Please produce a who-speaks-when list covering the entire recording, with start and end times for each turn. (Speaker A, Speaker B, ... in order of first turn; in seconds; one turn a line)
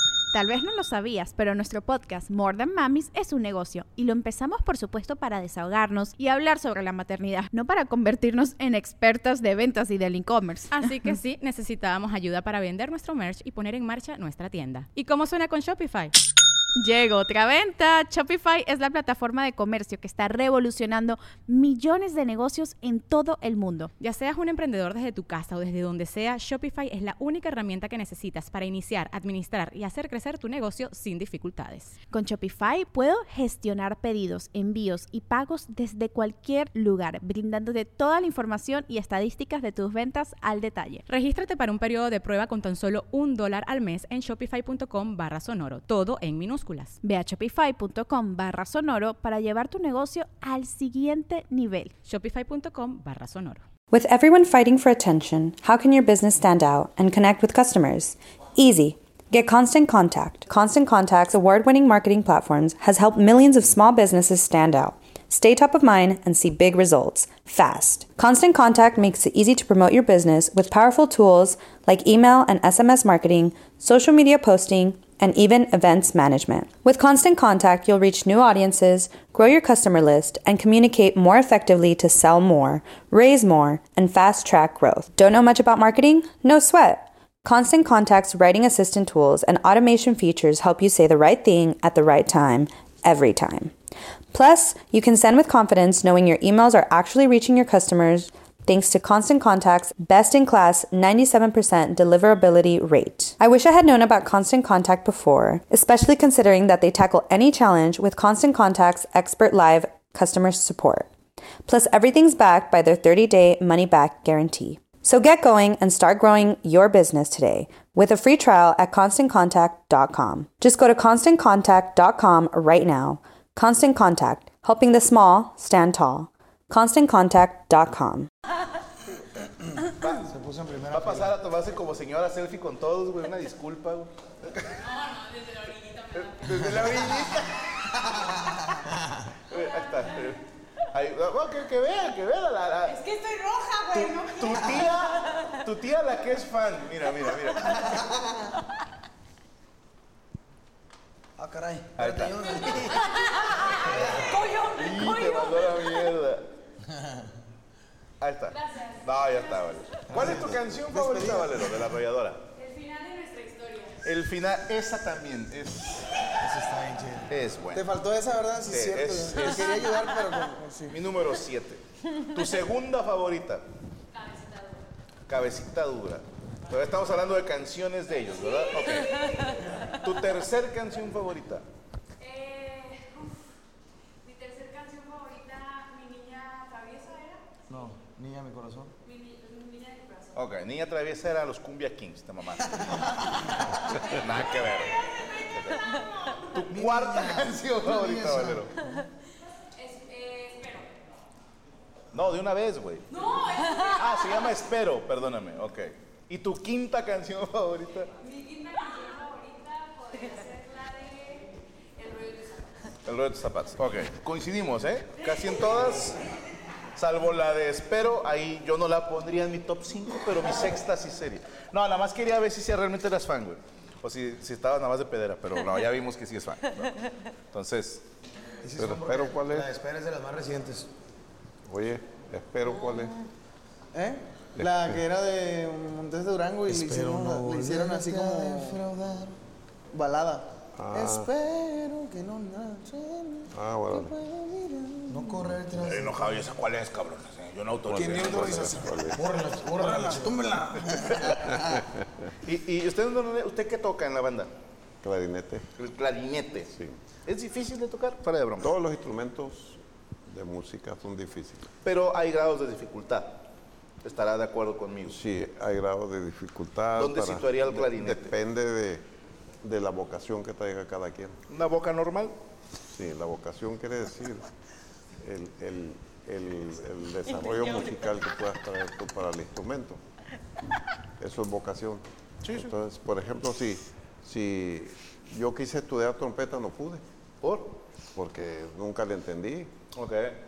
Speaker A: 0.3-11.2
Speaker B: 11.0-16.1
Speaker A: 16.8-23.9
Speaker B: 24.0-31.9
Speaker A: 32.1-41.0
Speaker B: 41.1-47.0
Speaker A: 47.0-51.9
Speaker B: 52.0-53.6
Speaker C: 53.9-93.7
Speaker C: 94.3-111.1
Speaker C: 111.7-128.3
Speaker D: 130.0-130.3
Speaker E: 130.2-131.3
Speaker D: 130.9-134.8
Speaker D: 136.1-137.8
Speaker E: 139.0-139.2
Speaker D: 139.5-140.4
Speaker D: 140.9-143.0
Speaker F: 143.3-145.5
Speaker D: 143.9-148.0
Speaker F: 147.5-147.8
Speaker E: 151.4-152.8
Speaker D: 152.0-152.8
Speaker F: 152.6-156.1
Speaker D: 154.7-156.5
Speaker D: 158.2-162.5
Speaker E: 160.1-160.6
Speaker G: 160.2-161.7
Speaker D: 164.0-166.1
Speaker E: 166.4-167.3
Speaker D: 167.3-167.9
Speaker G: 167.8-171.0
Speaker D: 168.7-169.9
Speaker D: 170.9-173.7
Speaker D: 175.3-181.6
Speaker F: 179.0-179.5
Speaker E: 187.7-188.9
Speaker D: 190.3-198.7
Speaker E: 196.7-198.7
Speaker D: 202.1-208.1
Speaker D: 213.1-216.2
Speaker D: 217.0-226.9
Speaker D: 227.5-228.0
Speaker E: 228.6-230.9
Speaker H: 228.8-229.7
Speaker H: 231.7-233.1
Speaker F: 232.7-233.3
Speaker G: 233.9-238.8
Speaker H: 234.6-234.9
Speaker E: 236.7-239.3
Speaker G: 239.9-245.5
Speaker H: 240.8-241.3
Speaker H: 243.5-244.1
Speaker E: 245.1-246.5
Speaker D: 245.8-248.9
Speaker H: 247.9-249.3
Speaker E: 248.0-250.9
Speaker G: 249.8-251.6
Speaker D: 252.4-254.5
Speaker H: 255.0-255.7
Speaker D: 255.8-256.7
Speaker H: 256.7-257.0
Speaker D: 257.2-258.7
Speaker H: 258.6-261.7
Speaker D: 261.8-263.4
Speaker D: 264.0-265.2
Speaker H: 265.1-269.0
Speaker D: 267.0-268.3
Speaker H: 269.6-271.4
Speaker D: 271.5-272.3
Speaker H: 272.9-274.4
Speaker H: 275.2-280.0
Speaker F: 277.3-278.0
Speaker H: 281.2-287.0
Speaker D: 282.4-282.7
Speaker D: 287.4-287.8
Speaker H: 288.1-289.7
Speaker D: 289.9-290.4